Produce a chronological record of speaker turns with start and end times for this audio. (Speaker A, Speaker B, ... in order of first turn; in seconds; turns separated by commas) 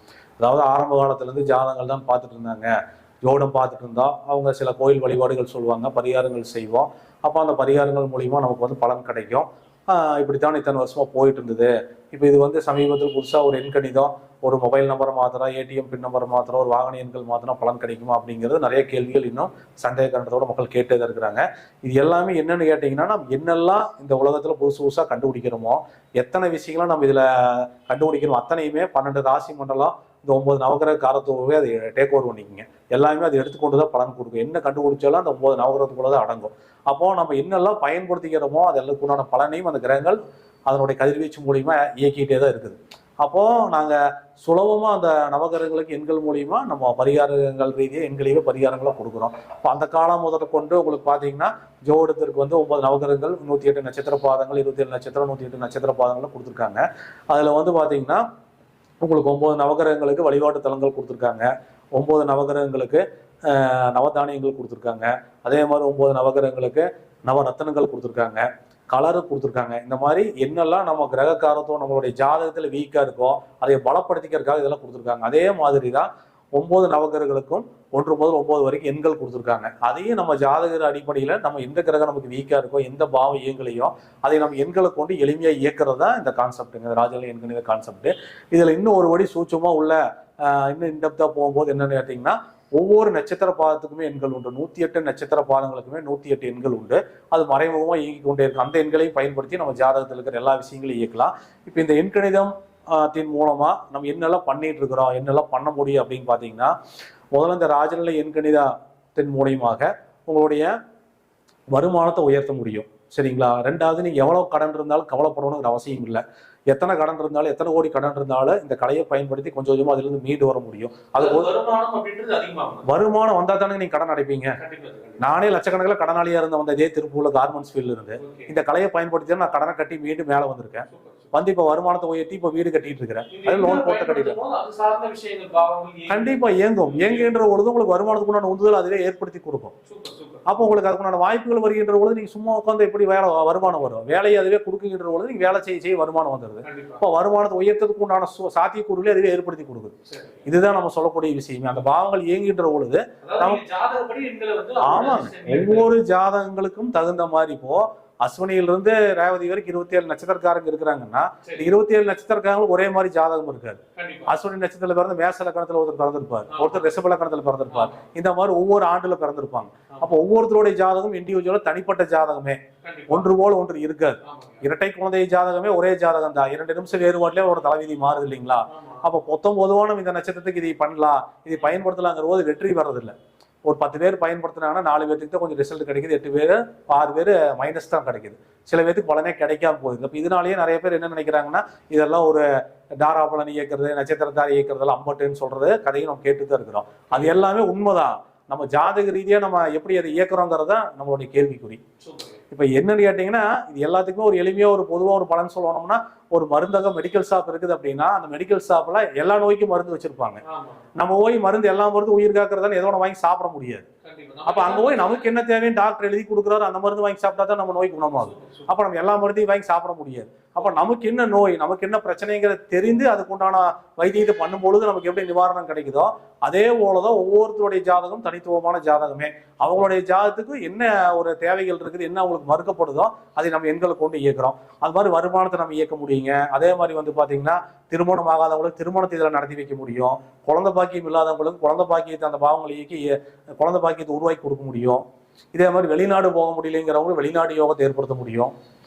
Speaker A: 0.4-2.7, Speaker A: 3.2-58.2, Speaker A: 59.0-106.7, Speaker A: 107.3-110.7, Speaker A: 111.7-121.5, Speaker B: 121.2-122.9, Speaker A: 122.8-124.6, Speaker B: 124.6-125.2, Speaker A: 125.2-134.4, Speaker B: 128.2-128.5, Speaker B: 130.9-131.3, Speaker B: 133.3-137.4, Speaker A: 136.1-139.7, Speaker B: 139.8-140.6, Speaker A: 140.4-153.6, Speaker B: 146.6-147.0, Speaker B: 150.1-150.4, Speaker B: 153.2-155.9, Speaker A: 154.8-172.6, Speaker B: 161.4-161.7, Speaker B: 163.9-164.3, Speaker B: 166.5-166.9, Speaker B: 167.7-168.0, Speaker B: 172.8-173.3, Speaker A: 173.1-183.1, Speaker B: 174.2-174.6, Speaker B: 178.7-179.1, Speaker A: 183.7-192.4, Speaker A: 193.0-201.8, Speaker B: 202.0-202.4, Speaker A: 202.5-210.4, Speaker B: 210.4-210.8, Speaker A: 210.9-213.8, Speaker B: 214.0-215.3, Speaker A: 214.4-245.0, Speaker B: 218.1-218.7, Speaker A: 245.5-248.5